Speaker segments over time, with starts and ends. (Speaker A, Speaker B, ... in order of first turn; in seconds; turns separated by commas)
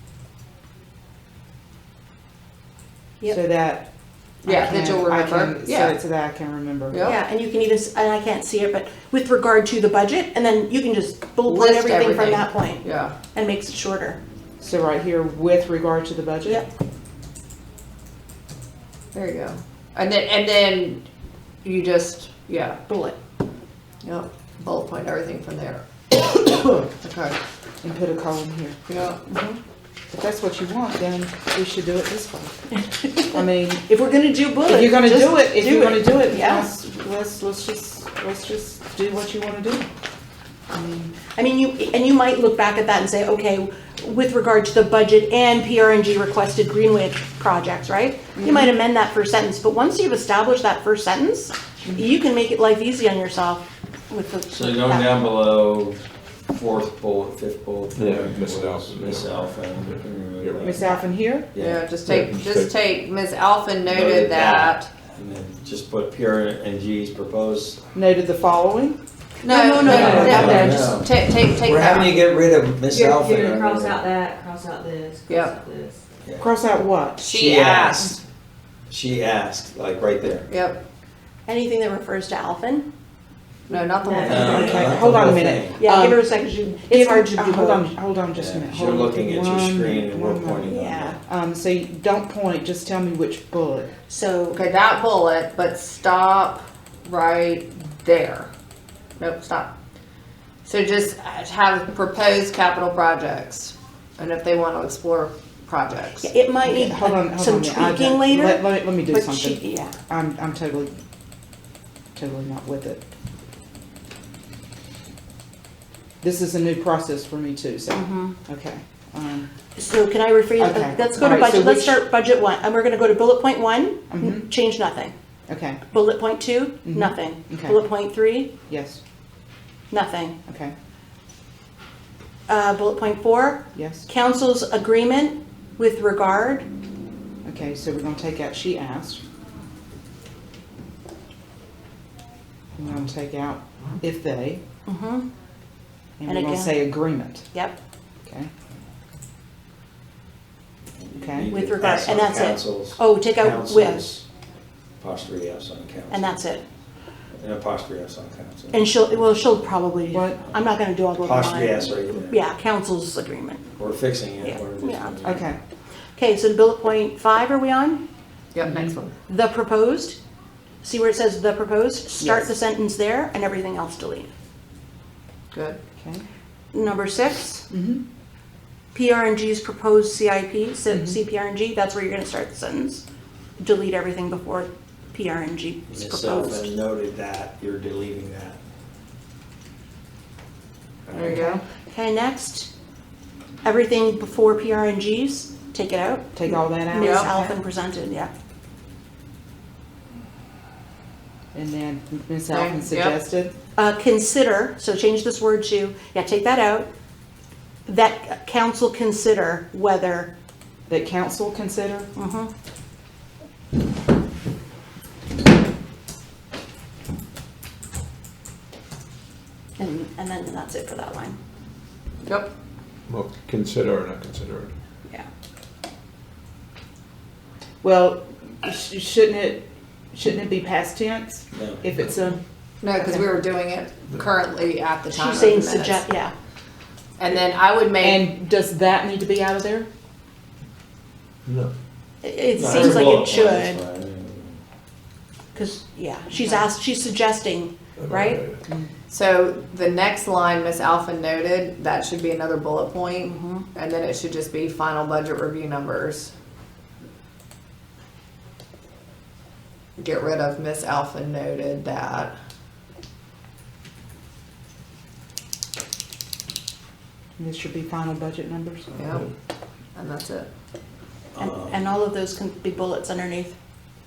Speaker A: 3.3-3.9, Speaker A: 4.4-7.0, Speaker B: 4.5-6.0, Speaker B: 6.9-7.2, Speaker C: 7.0-14.2, Speaker B: 11.5-13.2, Speaker A: 14.6-16.6, Speaker B: 19.1-21.1, Speaker B: 21.6-22.8, Speaker C: 22.9-23.2, Speaker B: 24.0-27.4, Speaker A: 27.8-28.8, Speaker B: 28.9-29.3, Speaker C: 29.3-29.6, Speaker A: 30.1-32.6, Speaker A: 33.2-34.0, Speaker C: 33.9-36.7, Speaker A: 34.6-39.9, Speaker A: 40.7-41.1, Speaker C: 41.3-55.2, Speaker A: 48.4-48.7, Speaker D: 54.5-60.9, Speaker E: 58.0-60.7, Speaker A: 60.6-61.5, Speaker D: 61.5-61.9, Speaker B: 61.6-64.9, Speaker E: 62.0-62.7, Speaker D: 63.9-67.8, Speaker A: 67.9-69.0, Speaker C: 69.4-71.0, Speaker B: 69.4-72.2, Speaker F: 69.8-71.0, Speaker D: 69.9-74.0, Speaker A: 69.9-70.6, Speaker F: 72.9-76.0, Speaker B: 75.3-75.5, Speaker A: 76.4-77.5, Speaker B: 77.2-78.2, Speaker D: 77.4-78.0, Speaker D: 78.9-80.5, Speaker B: 80.5-80.8, Speaker C: 81.5-82.9, Speaker B: 83.7-84.9, Speaker F: 84.0-84.9, Speaker D: 84.2-85.8, Speaker A: 84.3-86.2, Speaker C: 85.8-87.9, Speaker A: 86.9-90.7, Speaker D: 88.3-91.2, Speaker C: 90.7-91.2, Speaker A: 91.2-93.9, Speaker C: 94.1-94.6, Speaker B: 94.5-98.5, Speaker B: 99.2-99.7, Speaker B: 100.6-106.3, Speaker C: 106.2-110.0, Speaker A: 106.6-111.0, Speaker A: 112.2-113.0, Speaker A: 116.2-119.5, Speaker C: 117.9-118.4, Speaker C: 119.8-125.1, Speaker A: 120.6-122.0, Speaker A: 124.1-124.5, Speaker A: 125.5-125.8, Speaker C: 125.9-128.5, Speaker A: 126.9-127.8, Speaker A: 128.7-129.0, Speaker C: 129.9-130.4, Speaker A: 130.5-130.8, Speaker C: 132.5-136.7, Speaker A: 133.7-134.1, Speaker A: 137.4-139.2, Speaker A: 142.8-144.6, Speaker C: 144.9-145.3, Speaker A: 146.2-147.5, Speaker C: 146.3-146.8, Speaker D: 151.0-154.2, Speaker A: 151.2-151.5, Speaker C: 151.5-154.1, Speaker D: 155.0-156.4, Speaker C: 156.1-156.6, Speaker D: 157.4-159.6, Speaker C: 158.7-163.8, Speaker A: 160.1-160.4, Speaker D: 161.2-162.4, Speaker D: 163.8-165.4, Speaker C: 164.4-165.3, Speaker A: 165.2-165.6, Speaker C: 166.2-168.0, Speaker B: 168.5-169.1, Speaker A: 168.6-168.9, Speaker C: 169.3-170.2, Speaker C: 170.8-174.3, Speaker B: 175.5-175.8, Speaker A: 176.0-176.2, Speaker C: 176.7-177.7, Speaker A: 177.7-178.0, Speaker C: 178.9-183.0, Speaker A: 180.9-181.2, Speaker C: 183.6-186.7, Speaker D: 185.9-188.6, Speaker D: 191.1-191.4, Speaker B: 191.1-191.6, Speaker A: 191.3-191.6, Speaker C: 191.9-192.7, Speaker C: 193.6-198.3, Speaker A: 196.3-197.4, Speaker B: 197.0-197.5, Speaker A: 201.5-203.6, Speaker B: 202.5-203.2, Speaker C: 203.8-206.9, Speaker C: 207.9-210.3, Speaker A: 210.9-212.1, Speaker C: 212.2-212.5, Speaker C: 219.8-221.4, Speaker E: 223.1-224.7, Speaker A: 227.8-232.4, Speaker D: 231.5-231.8, Speaker B: 232.8-236.0, Speaker C: 235.1-236.3, Speaker B: 237.2-238.3, Speaker A: 238.0-239.9, Speaker E: 241.5-241.7, Speaker C: 242.2-243.8, Speaker D: 242.6-244.6, Speaker C: 245.6-248.4, Speaker E: 248.0-248.6, Speaker B: 249.1-256.3, Speaker C: 253.2-253.7, Speaker B: 260.0-262.3, Speaker A: 267.4-269.0, Speaker B: 269.0-269.3, Speaker B: 269.9-270.5, Speaker D: 271.4-271.9, Speaker C: 271.4-273.5